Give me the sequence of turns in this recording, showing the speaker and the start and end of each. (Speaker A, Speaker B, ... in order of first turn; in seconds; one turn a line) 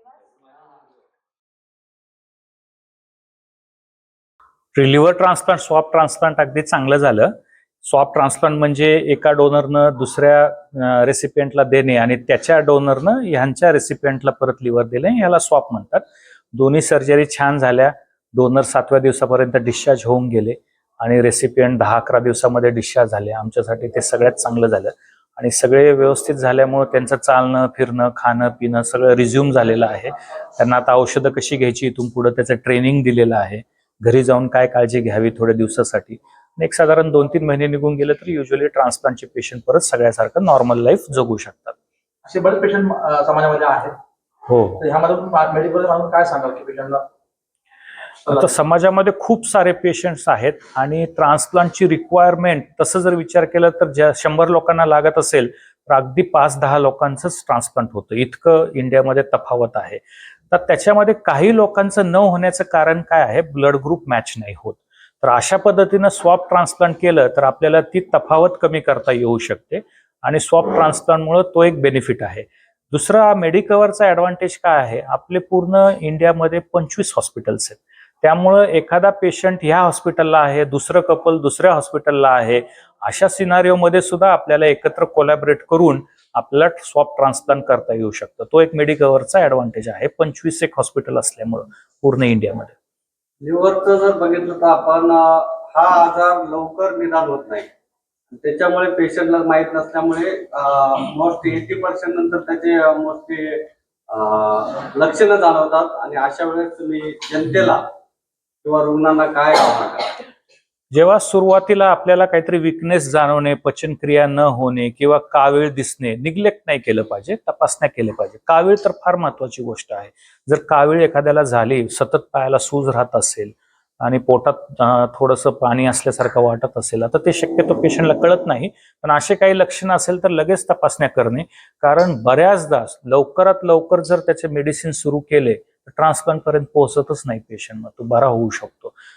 Speaker A: 4.7-7.3
Speaker A: 7.8-41.7
Speaker B: 42.3-43.9
Speaker A: 44.5-44.8
Speaker B: 44.8-47.0
Speaker A: 48.3-92.7
Speaker C: 93.4-97.7
Speaker C: 98.3-107.8
Speaker C: 108.6-110.1
Speaker A: 110.9-138.9